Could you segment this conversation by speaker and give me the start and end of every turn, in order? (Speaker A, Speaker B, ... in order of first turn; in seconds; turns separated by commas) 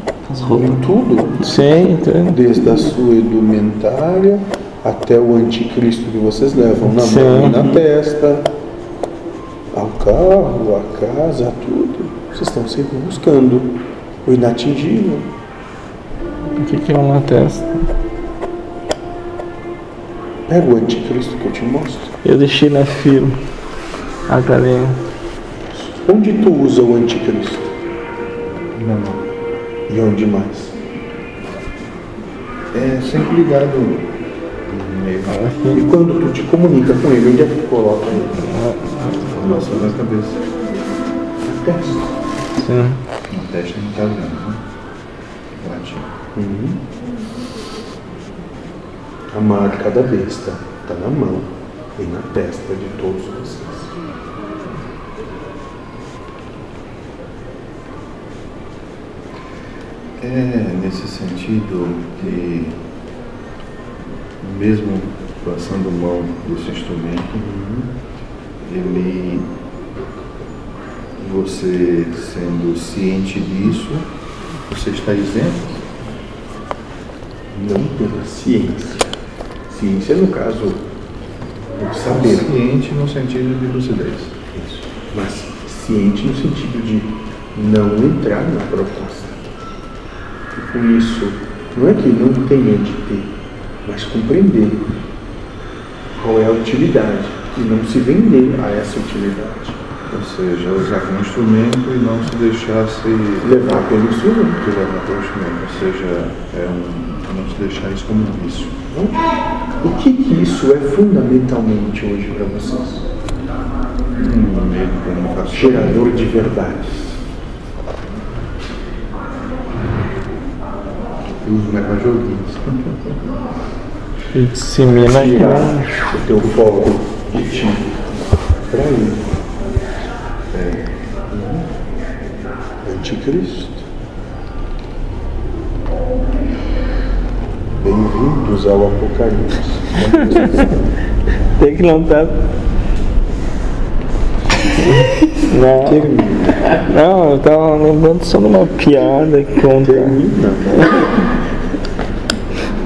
Speaker A: 0.5-1.6, Speaker B: 1.4-2.6, Speaker A: 2.3-8.5, Speaker B: 6.8-7.8, Speaker A: 9.7-15.3, Speaker B: 16.5-17.9, Speaker A: 20.5-22.1, Speaker B: 22.2-23.4, Speaker B: 24.3-25.0, Speaker A: 25.7-27.7, Speaker C: 28.7-29.3, Speaker A: 29.9-30.8, Speaker C: 32.7-34.1, Speaker C: 34.7-35.4, Speaker B: 35.3-35.8, Speaker A: 35.7-38.4, Speaker B: 38.4-39.4, Speaker C: 39.3-40.5, Speaker A: 41.4-42.2, Speaker B: 42.5-43.0, Speaker C: 43.3-44.6, Speaker C: 45.6-46.1, Speaker A: 46.4-46.8, Speaker A: 49.3-54.0, Speaker C: 60.2-62.8, Speaker C: 64.4-67.5, Speaker A: 67.4-67.9, Speaker C: 68.6-69.5, Speaker C: 71.2-74.1, Speaker C: 74.7-75.8, Speaker A: 77.5-79.1, Speaker A: 79.7-80.8, Speaker A: 81.8-82.5, Speaker C: 82.0-84.3, Speaker A: 84.5-89.5, Speaker A: 90.5-93.3, Speaker A: 93.8-94.9, Speaker A: 96.2-99.8, Speaker C: 100.1-108.8, Speaker A: 103.4-104.6, Speaker A: 108.9-109.2, Speaker A: 109.8-113.1, Speaker C: 114.2-116.4, Speaker A: 115.5-117.2, Speaker C: 121.4-123.1, Speaker B: 124.3-126.0, Speaker A: 125.0-127.9, Speaker A: 128.7-129.3, Speaker C: 130.5-130.8, Speaker A: 132.8-133.9, Speaker A: 137.8-140.8, Speaker B: 141.6-142.4, Speaker B: 144.8-146.1, Speaker A: 145.8-146.7, Speaker B: 146.7-150.2, Speaker A: 149.8-151.3